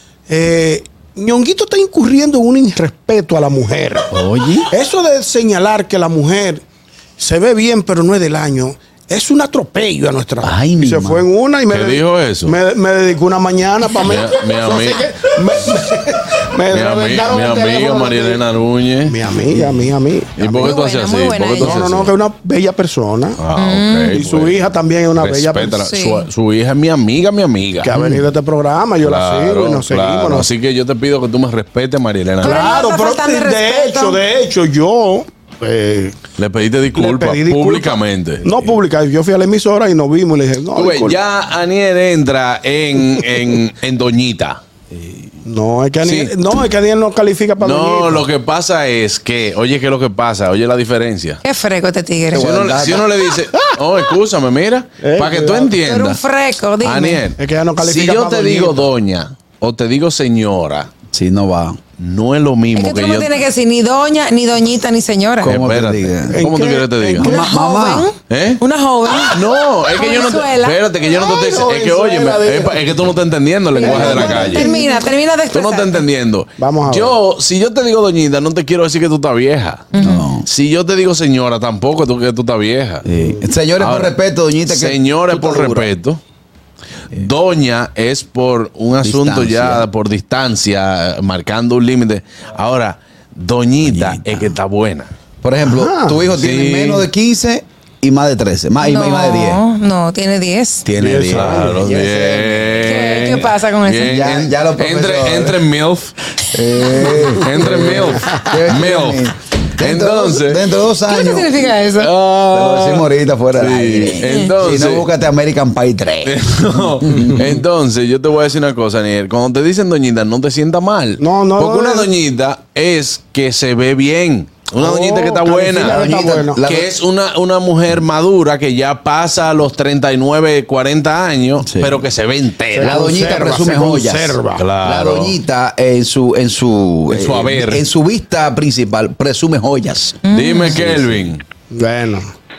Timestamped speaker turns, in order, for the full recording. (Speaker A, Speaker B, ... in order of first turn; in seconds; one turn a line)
Speaker A: 0.3-4.1
Speaker B: 4.1-4.7
Speaker A: 4.7-6.6
Speaker A: 7.2-18.4
Speaker B: 10.4-11.3
Speaker C: 11.7-12.6
Speaker C: 14.0-15.1
Speaker C: 16.7-19.2
Speaker A: 19.1-20.7
Speaker C: 20.4-22.1
Speaker D: 20.6-21.7
Speaker A: 21.5-23.4
Speaker C: 23.4-24.6
Speaker D: 23.6-24.2
Speaker A: 24.1-25.8
Speaker C: 25.1-28.1
Speaker D: 25.8-26.3
Speaker A: 27.8-30.5
Speaker C: 29.0-32.7
Speaker A: 32.4-36.2
Speaker D: 32.4-34.2
Speaker C: 36.4-38.8
Speaker A: 36.9-41.2
Speaker C: 40.7-45.1
Speaker A: 45.4-48.3
Speaker C: 46.0-46.4
Speaker C: 47.6-51.4
Speaker D: 51.4-52.5
Speaker B: 52.3-53.1
Speaker C: 52.4-56.2
Speaker A: 55.0-55.8
Speaker D: 55.8-57.3
Speaker C: 56.8-60.9
Speaker A: 57.4-58.9
Speaker B: 61.1-61.8
Speaker C: 62.0-63.4
Speaker D: 62.7-65.5
Speaker B: 65.4-66.5
Speaker C: 65.4-67.3
Speaker A: 66.3-67.6
Speaker B: 67.2-68.1
Speaker D: 67.3-69.4
Speaker C: 68.3-74.7
Speaker D: 70.0-70.8
Speaker A: 71.1-73.0
Speaker A: 73.8-75.0
Speaker D: 73.8-76.0
Speaker C: 75.5-79.9
Speaker A: 76.6-77.2
Speaker D: 79.9-80.2
Speaker B: 80.0-80.5
Speaker C: 80.5-83.0
Speaker B: 83.0-85.9
Speaker A: 83.1-83.4
Speaker C: 83.8-84.2
Speaker C: 84.7-86.2
Speaker C: 87.1-95.1
Speaker B: 89.0-89.9
Speaker B: 93.8-94.6
Speaker B: 95.4-99.6
Speaker A: 95.6-96.2
Speaker C: 96.3-97.1
Speaker D: 98.8-100.9
Speaker B: 100.8-103.3
Speaker A: 101.0-101.8
Speaker C: 101.3-106.1
Speaker D: 102.9-104.0
Speaker B: 104.0-105.6
Speaker B: 106.5-111.7
Speaker C: 107.3-109.2
Speaker C: 109.8-110.7
Speaker D: 111.2-112.1
Speaker C: 112.0-115.1
Speaker B: 112.5-116.4
Speaker C: 116.2-126.0
Speaker B: 117.0-117.5
Speaker A: 121.2-122.1
Speaker A: 124.8-126.6
Speaker B: 125.8-126.9
Speaker C: 126.6-133.0
Speaker B: 131.6-132.1
Speaker A: 132.7-134.6
Speaker B: 132.8-140.2
Speaker C: 134.6-135.4
Speaker C: 137.1-137.8
Speaker D: 140.2-140.8
Speaker C: 140.3-141.4
Speaker A: 141.7-142.2